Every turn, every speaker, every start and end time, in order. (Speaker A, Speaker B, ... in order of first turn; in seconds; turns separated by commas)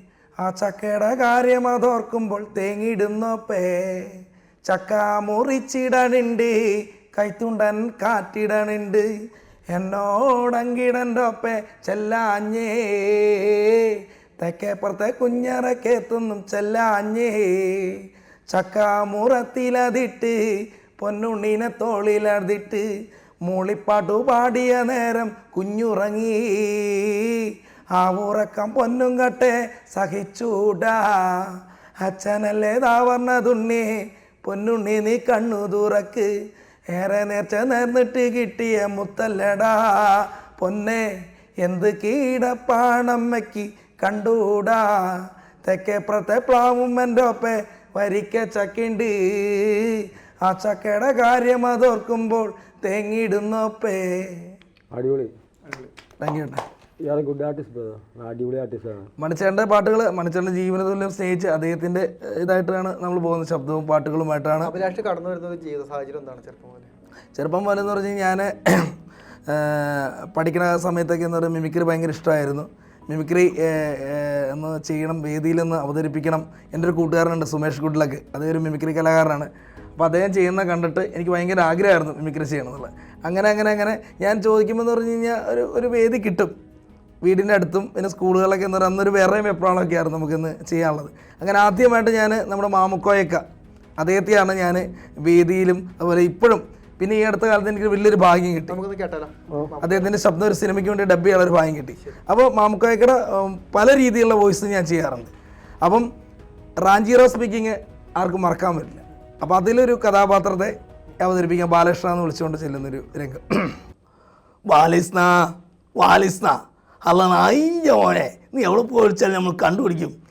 Speaker A: 0.4-9.1, Speaker A: 9.7-20.4, Speaker A: 21.0-22.9, Speaker A: 23.4-36.3, Speaker A: 36.9-41.1, Speaker A: 41.6-54.5, Speaker B: 54.9-55.3, Speaker C: 55.6-55.9, Speaker A: 56.2-56.6, Speaker B: 57.0-59.1, Speaker A: 59.2-64.7, Speaker C: 64.6-66.9, Speaker A: 67.3-68.9, Speaker A: 69.5-86.5, Speaker A: 87.2-93.4, Speaker A: 94.0-98.8, Speaker C: 98.7-100.1, Speaker A: 99.8-105.3, Speaker A: 106.8-113.8, Speaker A: 114.7-120.2